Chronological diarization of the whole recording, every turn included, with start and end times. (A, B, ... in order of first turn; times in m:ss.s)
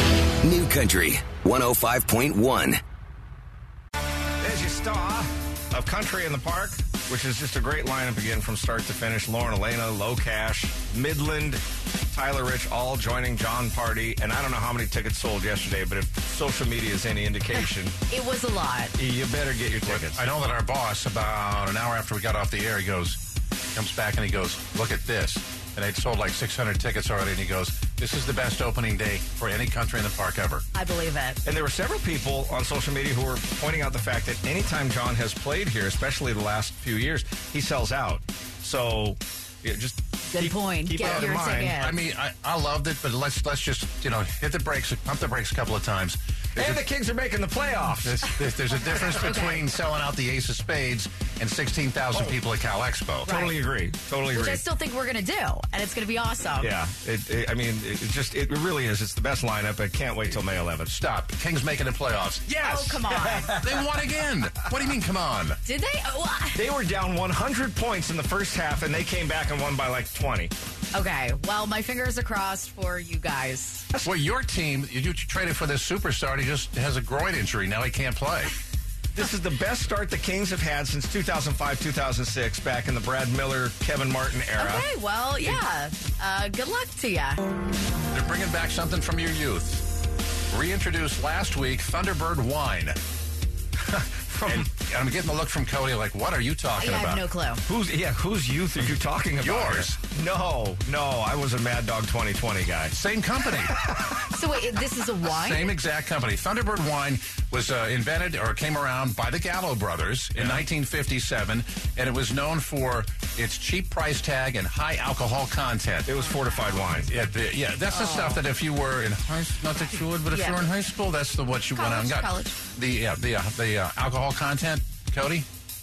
0:00.4-0:02.8 A
0:04.4-0:18.0 B
0:18.1-0:19.0 C
0:19.0-0:20.2 B
0:19.8-0:23.2 D
0:23.7-0:30.6 D
0:30.7-0:31.4 C
0:31.4-0:41.8 B
0:40.3-0:42.0 C
0:41.0-0:46.8 D
0:46.6-0:48.3 B
0:48.0-0:53.3 D
0:49.1-0:49.7 C
0:53.2-0:53.6 C
0:53.2-0:54.6 B
0:54.3-0:56.7 C
0:56.6-1:00.9 B
1:00.9-1:02.7 D
1:02.5-1:03.8 B
1:02.6-1:03.6 C
1:03.6-1:05.6 D
1:05.6-1:06.6 C
1:06.6-1:10.5 B
1:10.9-1:13.9 C
1:14.0-1:18.6 D
1:19.1-1:24.9 B
1:24.6-1:27.5 C
1:28.1-1:29.9 D
1:30.5-1:33.0 D
1:33.8-1:34.7 B
1:34.5-1:37.2 D
1:36.8-1:37.6 C
1:37.7-1:43.0 B
1:39.4-1:40.0 D
1:42.9-1:43.8 D
1:43.8-1:44.2 B
1:44.3-1:45.7 C
1:45.2-1:56.1 D
1:50.4-1:50.6 B
1:56.1-1:57.1 B
1:56.2-1:56.9 C
1:57.1-2:05.5 D
1:57.9-1:58.4 C
2:00.3-2:00.6 C
2:01.8-2:02.6 C